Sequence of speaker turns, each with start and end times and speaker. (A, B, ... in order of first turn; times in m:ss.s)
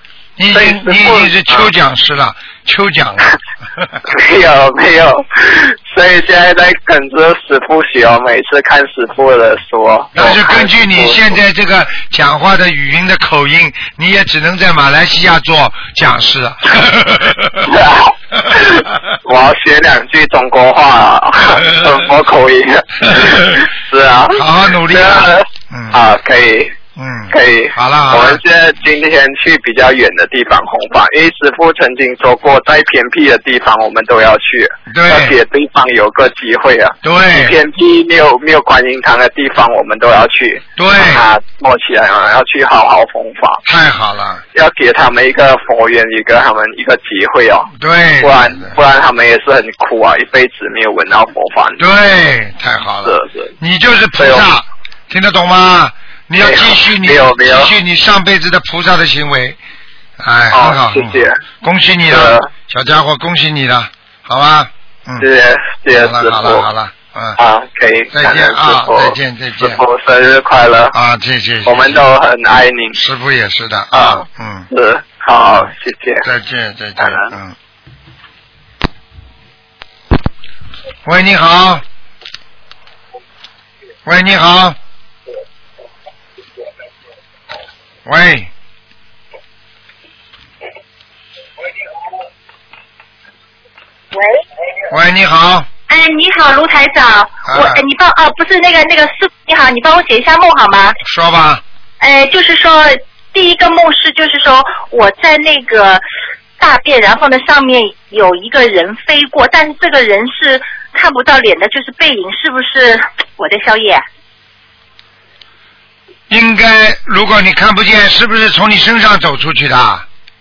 0:00.4-0:04.0 A
0:00.5-0:01.7 B
0:04.1-0:11.4 B
0:10.2-0:17.7 A
0:17.6-0:26.7 B
0:23.1-0:23.6 A
0:24.3-0:26.0 A
0:27.0-0:28.4 A
0:27.3-0:43.6 B
0:34.9-0:35.4 A
0:37.0-0:37.6 A
0:40.8-0:41.2 A
0:43.6-0:44.4 A
0:44.5-0:51.8 B
0:47.8-0:48.7 A
0:51.8-0:59.6 A
0:53.0-0:53.5 B
0:54.2-0:54.5 B
0:56.4-0:57.7 B
1:00.2-1:05.3 A
1:00.5-1:01.4 B
1:02.1-1:02.5 B
1:05.2-1:06.7 B
1:05.9-1:07.4 A
1:07.4-1:10.9 B
1:08.1-1:09.8 A
1:10.9-1:12.0 A
1:11.6-1:13.0 B
1:12.9-1:14.7 A
1:13.9-1:16.3 B
1:16.2-1:17.6 A
1:17.0-1:17.3 B
1:21.0-1:21.8 A
1:24.0-1:24.8 A
1:28.0-1:28.5 A
1:34.9-1:35.7 A
1:35.9-1:41.0 C
1:37.5-1:37.8 A
1:41.0-1:41.6 A
1:42.0-1:46.0 C
1:46.6-1:54.0 C
1:56.3-2:00.0 A